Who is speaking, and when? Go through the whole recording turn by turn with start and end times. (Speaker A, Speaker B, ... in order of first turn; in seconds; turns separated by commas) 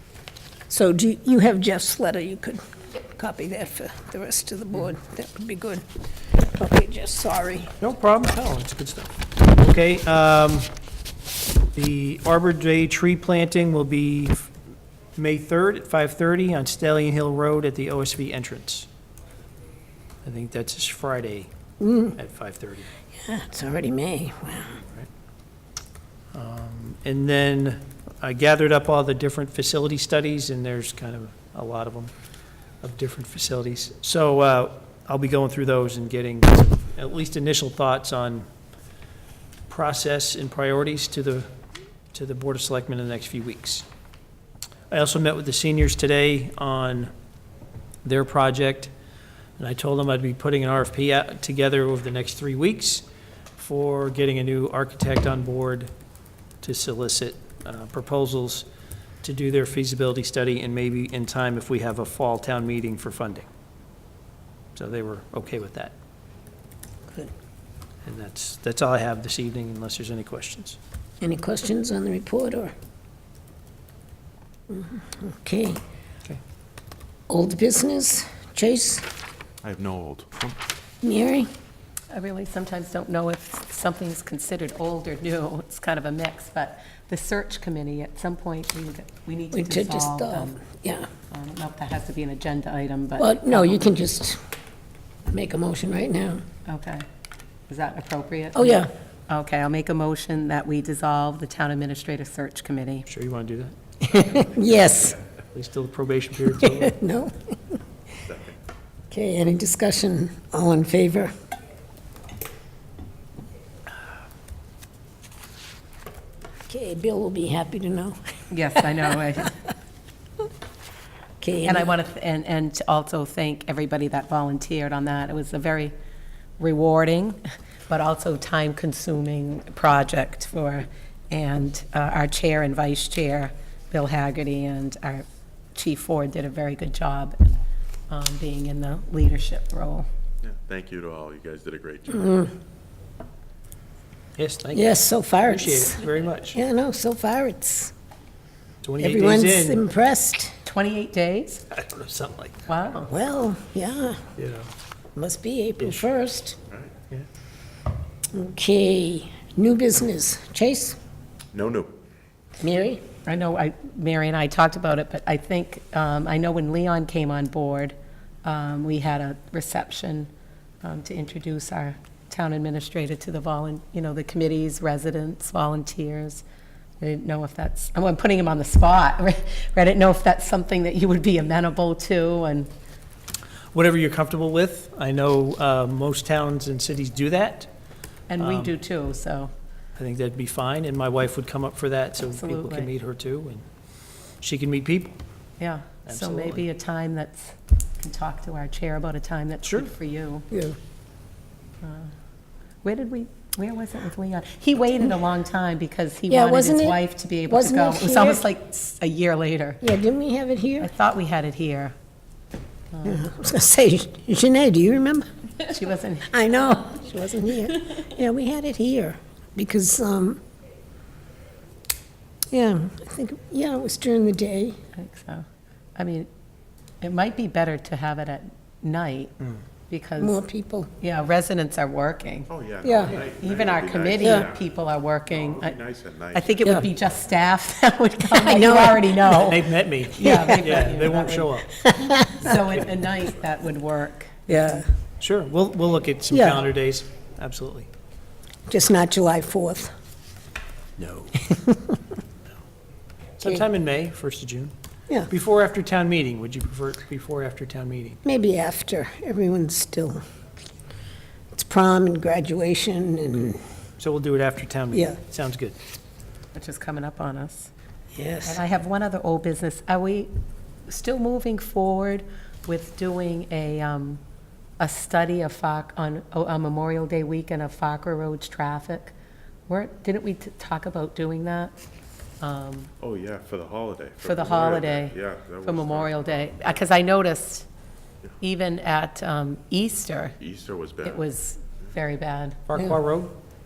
Speaker A: 0.7-7.7, Speaker B: 7.8-10.7, Speaker B: 11.7-14.5, Speaker B: 15.2-18.9, Speaker B: 20.2-21.5, Speaker A: 21.8-22.2, Speaker B: 22.1-22.9, Speaker A: 23.1-24.8, Speaker B: 26.3-32.1, Speaker B: 32.8-38.5, Speaker B: 39.7-41.5, Speaker B: 42.1-43.9, Speaker B: 44.9-47.1, Speaker B: 48.0-48.9, Speaker B: 49.6-53.0, Speaker B: 53.5-55.9, Speaker B: 56.6-58.6, Speaker B: 59.2-63.5, Speaker B: 64.8-65.9, Speaker B: 68.0-70.8, Speaker A: 71.2-72.7, Speaker A: 74.7-75.8, Speaker A: 77.3-79.0, Speaker C: 79.6-80.6, Speaker A: 81.0-81.5, Speaker D: 82.1-90.6, Speaker A: 89.5-91.1, Speaker D: 91.3-93.9, Speaker A: 93.2-94.4, Speaker A: 95.3-96.4, Speaker D: 96.7-97.0, Speaker D: 97.7-103.1, Speaker A: 98.5-98.9, Speaker B: 103.1-103.7, Speaker A: 104.0-105.2, Speaker B: 105.5-107.0, Speaker A: 106.6-107.8, Speaker C: 108.2-108.5, Speaker A: 109.1-111.3, Speaker A: 116.7-119.1, Speaker D: 118.5-119.5, Speaker A: 121.4-121.9, Speaker D: 121.6-125.9, Speaker D: 126.6-137.4, Speaker D: 138.1-140.1, Speaker C: 140.4-142.4, Speaker B: 144.3-146.6, Speaker A: 144.7-147.9, Speaker B: 148.8-149.8, Speaker A: 149.0-150.6, Speaker D: 150.6-151.6, Speaker B: 151.7-152.5, Speaker D: 152.7-153.1, Speaker A: 153.1-154.2, Speaker B: 154.4-154.7, Speaker A: 155.2-156.6, Speaker A: 158.3-161.0, Speaker C: 161.5-162.0, Speaker A: 162.6-163.0, Speaker D: 163.2-170.3, Speaker D: 170.8-176.4, Speaker D: 177.0-182.7, Speaker B: 183.7-187.7, Speaker D: 188.3-189.5, Speaker B: 188.4-188.8, Speaker B: 189.9-193.6, Speaker D: 192.3-192.9, Speaker B: 194.4-195.2, Speaker D: 195.6-200.5, Speaker B: 196.1-196.6, Speaker B: 199.6-199.9, Speaker A: 200.5-200.8, Speaker D: 201.8-202.1, Speaker D: 202.8-209.8, Speaker A: 206.3-208.4, Speaker A: 209.8-210.9, Speaker D: 210.8-211.9, Speaker D: 212.9-213.3, Speaker A: 213.0-215.3, Speaker D: 215.6-216.4, Speaker A: 216.3-220.4, Speaker A: 222.5-224.8, Speaker D: 224.9-225.4, Speaker D: 226.0-226.3, Speaker D: 227.0-229.3, Speaker D: 229.9-230.4, Speaker A: 230.2-230.9, Speaker D: 231.0-232.5, Speaker C: 232.5-234.7, Speaker A: 232.8-233.2, Speaker D: 233.1-235.8, Speaker A: 234.2-234.5, Speaker C: 235.3-237.0, Speaker D: 236.3-244.8, Speaker A: 238.3-239.5, Speaker B: 239.2-241.7, Speaker A: 240.2-240.8, Speaker A: 241.8-242.5, Speaker A: 244.5-244.9, Speaker B: 245.2-247.9, Speaker A: 246.3-246.6, Speaker A: 248.7-249.9, Speaker B: 251.0-251.4, Speaker A: 251.5-251.9, Speaker B: 253.4-254.7, Speaker B: 255.3-258.2, Speaker A: 258.2-260.2, Speaker A: 261.5-263.6, Speaker B: 264.0-265.8, Speaker A: 264.9-265.2, Speaker D: 266.5-267.7, Speaker A: 268.1-268.6, Speaker D: 268.4-270.3, Speaker D: 270.9-274.2, Speaker D: 274.8-279.1, Speaker D: 279.7-281.8, Speaker D: 282.4-282.9, Speaker C: 283.0-286.8, Speaker D: 284.2-287.7, Speaker D: 288.4-290.4, Speaker C: 290.4-291.2, Speaker D: 291.0-292.6, Speaker B: 292.7-293.3